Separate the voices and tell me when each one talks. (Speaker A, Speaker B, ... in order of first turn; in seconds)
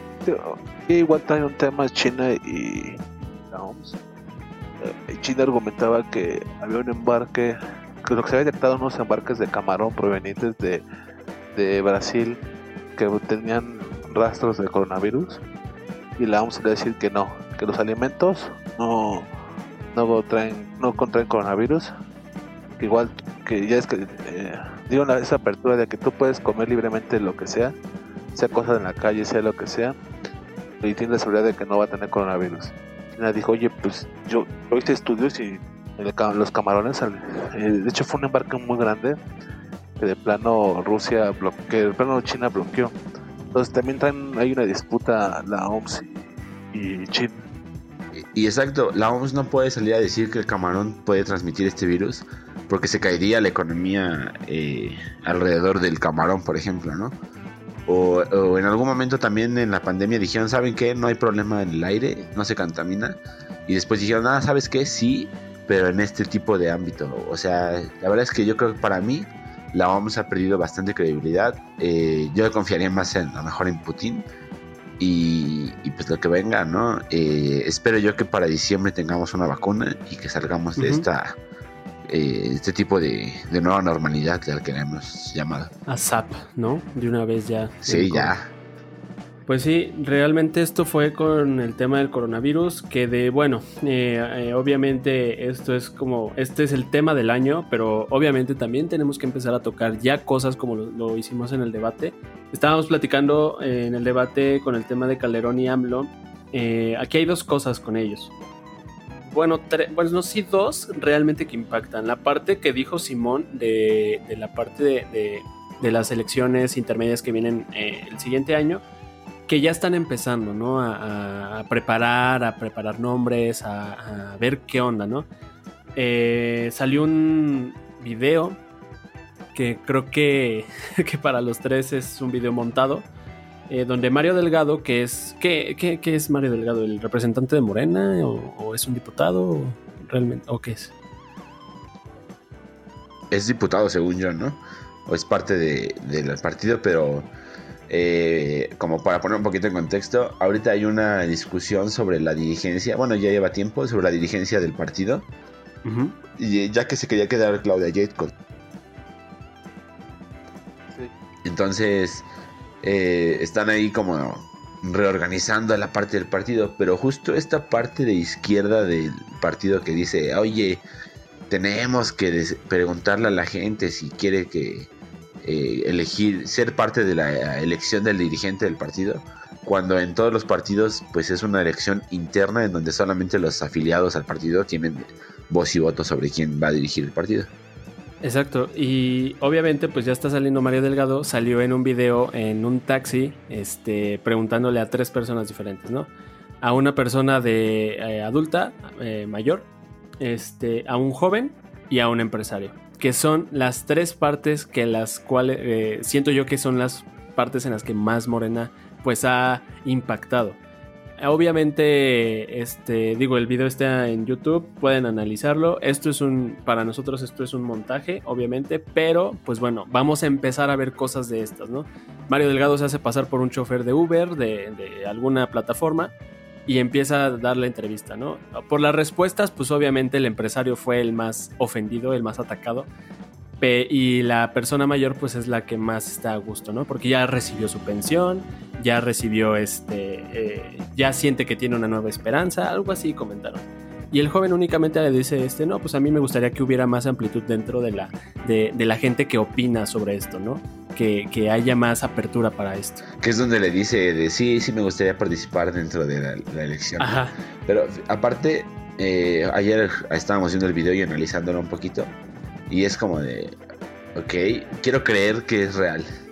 Speaker A: 0.2-4.0, 4.8-10.8, 11.5-12.4, 12.9-15.4, 16.2-19.3, 19.9-21.9, 22.8-27.8, 28.3-30.0, 30.8-39.2, 40.0-42.9, 43.5-47.4
Speaker B: 48.1-57.2, 57.9-74.2, 75.0-81.3, 82.0-85.7, 87.8-88.5, 143.3-147.3, 147.9-155.3, 156.3-158.3, 161.4-162.2, 162.8-170.8, 171.5-174.9, 175.4-187.5, 253.2-262.1, 262.7-263.6, 264.1-266.1
Speaker C: 80.8-81.0, 85.9-88.3, 89.5-108.3, 109.2-118.8, 119.5-125.3, 126.0-128.6, 129.5-133.1, 133.7-140.9, 155.8-156.2, 188.2-196.1, 196.6-199.7, 200.2-210.6, 211.2-226.1, 226.7-232.9, 233.6-253.0, 257.0-257.3